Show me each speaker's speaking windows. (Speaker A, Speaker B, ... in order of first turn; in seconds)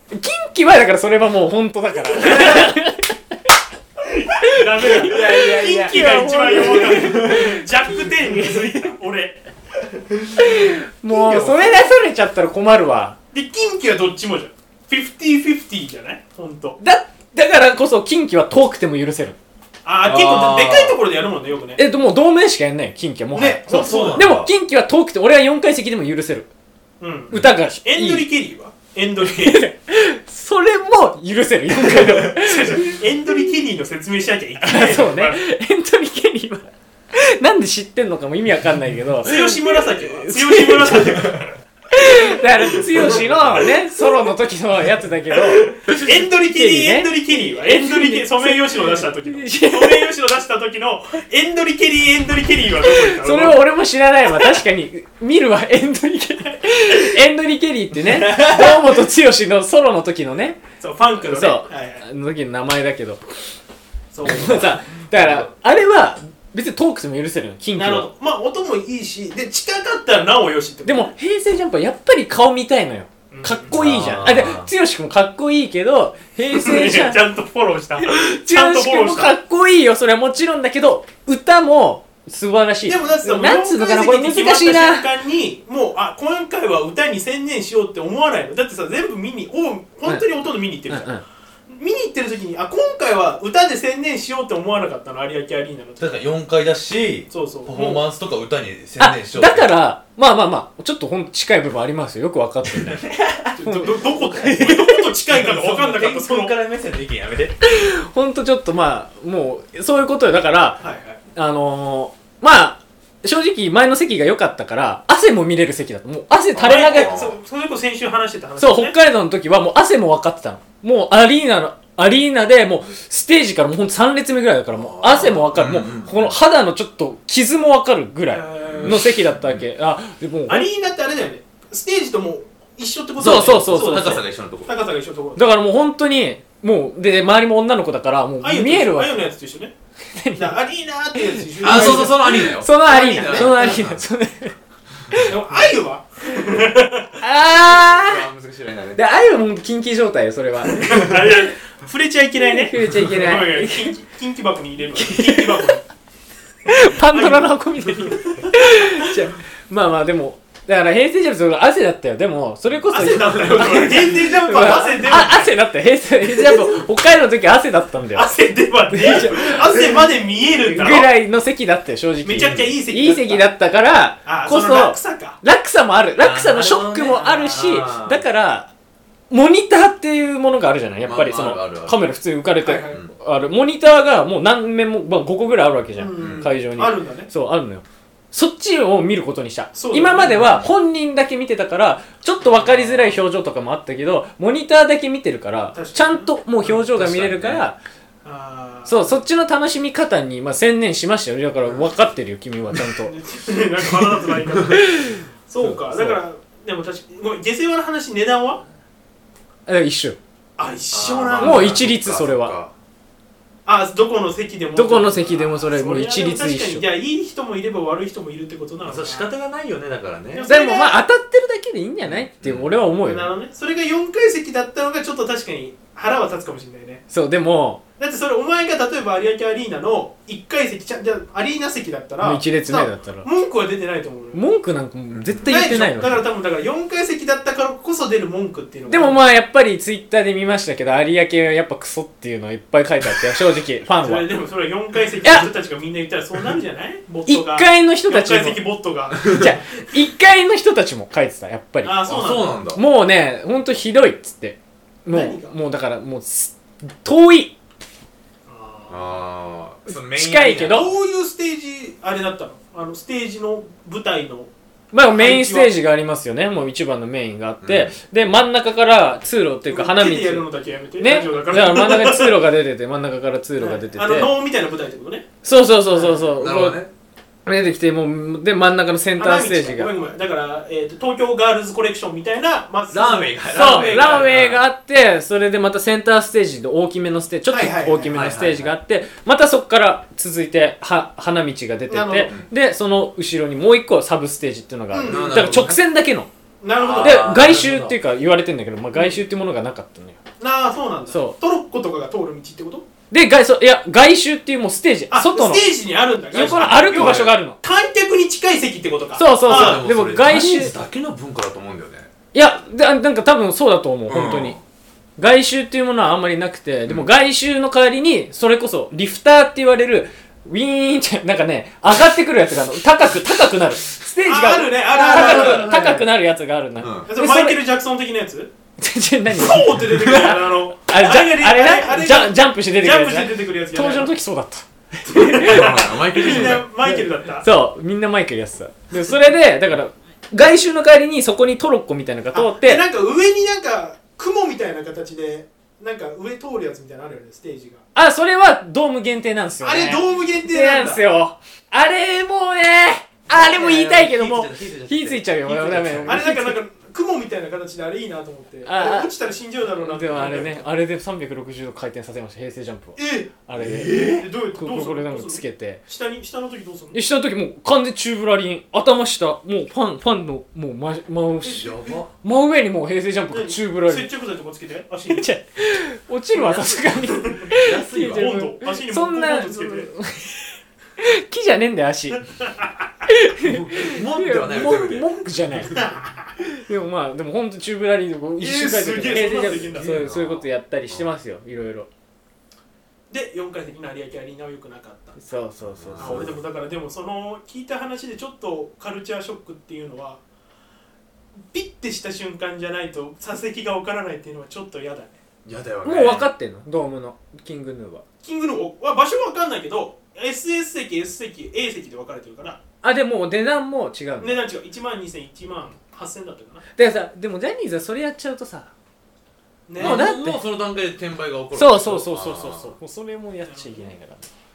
Speaker A: 0.1-3.4, 4.3-8.9, 10.4-13.2, 16.8-19.4, 21.8-26.5, 27.3-28.2, 29.2-33.5, 34.6-41.3, 41.9-50.1, 52.9-60.6, 61.2-63.2, 64.2-68.1, 70.8-77.2, 78.0-85.1, 90.9-91.2, 99.0-103.1, 103.6-105.0, 107.6-110.8, 111.3-117.1, 118.6-130.7, 133.2-134.2, 135.4-139.2, 140.1-140.6, 141.2-144.6, 147.2-148.3, 148.9-151.4, 152.4-153.9, 155.0-155.7, 156.7-168.3, 168.9-169.8, 170.6-178.7, 179.3-197.8, 198.9-203.1, 204.7-206.2, 209.7-210.2, 211.4-212.6, 214.7-216.8, 220.5-223.3, 227.1-227.8, 232.2-233.3, 234.3-236.2, 238.9-244.3, 245.2-245.5, 247.2-248.6, 249.3-252.1, 252.7-257.6, 259.9-260.9, 264.9-270.4, 271.0-274.3, 275.4-276.8, 277.4-279.9, 283.5-296.3, 297.0-300.2, 301.1-301.4, 303.1-305.6, 306.3-307.6, 309.1-310.7, 312.3-314.6, 315.2-327.6, 328.8-342.8, 347.9-356.6, 358.6-359.1, 359.8-365.8, 366.9-374.1, 375.1-382.2, 383.1-385.9, 386.5-391.9, 395.2-396.3, 405.8-408.0, 412.8-414.4, 416.8-418.7, 419.8-420.4, 421.5-424.3
Speaker B: 4.3-9.4, 13.3-16.8, 19.9-21.8, 23.3-24.3, 27.0-29.6, 31.8-35.4, 39.2-41.5, 45.9-53.6, 58.2-59.0, 60.8-62.0, 64.1-64.7, 67.8-71.1, 73.3-73.7, 76.5-79.3, 82.9-91.1, 91.7-96.2, 97.3-98.0, 103.6-106.5, 110.8-111.2, 116.6-119.0, 128.3-129.1, 130.5-135.4, 138.4-139.7, 140.3-143.8, 145.2-147.2, 150.8-155.8, 157.0-158.9, 162.9-165.5, 166.3-166.6, 168.1-171.1, 172.2-173.5, 174.2-175.4, 176.6-177.6, 182.6-183.0, 185.9-187.3, 189.7-190.6, 192.6-193.1, 195.7-196.9, 198.2-199.2, 203.0-208.6, 210.6-211.9, 213.7-219.3, 220.3-221.0, 223.0-227.0, 228.0-234.4, 235.4-239.2, 243.9-249.6, 251.8-252.6, 255.1-255.5, 258.5-259.1, 260.7-264.5, 265.1-265.7, 269.7-272.4, 273.6-275.3, 275.9-276.2, 279.2-284.3, 287.5-288.1, 291.9-292.3, 294.9-295.4, 296.6-297.5, 300.4-302.9, 305.1-309.9, 324.2-326.0, 327.1-328.5, 329.3-334.1, 335.1-337.5, 342.3-347.8, 349.6-351.0, 356.0-360.6, 363.0-363.3, 363.9-367.0, 371.5-371.9, 373.3-375.3, 376.9-379.9, 382.1-382.7, 385.7-386.3, 388.4-389.9, 393.1-395.2, 396.0-400.2, 401.5-405.2, 408.2-412.6, 414.2-416.6, 419.7-420.1, 423.4-423.9
Speaker C: 4.9-7.5, 10.4-11.6, 20.0-21.0, 23.7-24.5, 65.1-65.5, 73.7-74.7, 96.0-99.7, 102.9-103.6, 105.3-107.6, 116.5-117.4, 124.7-126.4, 128.6-129.6, 133.2-134.7, 141.6-144.0, 148.0-149.0, 162.7-163.7, 172.4-172.7, 176.2-178.2, 181.0-182.1, 186.2-186.5, 196.9-197.6, 210.9-212.7, 218.8-220.5, 222.0-222.8, 252.1-252.8, 258.9-260.9, 267.6-267.9, 276.3-276.9, 282.9-284.6, 287.9-288.7, 295.1-295.8, 296.8-298.0, 306.4-307.4, 309.4-312.1, 314.1-314.6, 325.1-326.0, 326.8-327.1, 335.1-336.7, 353.3-356.2, 363.6-364.3, 371.4-372.1, 376.3-376.9, 377.5-378.3, 383.4-385.1, 389.2-391.1, 395.6-396.4, 405.4-406.3, 419.8-422.7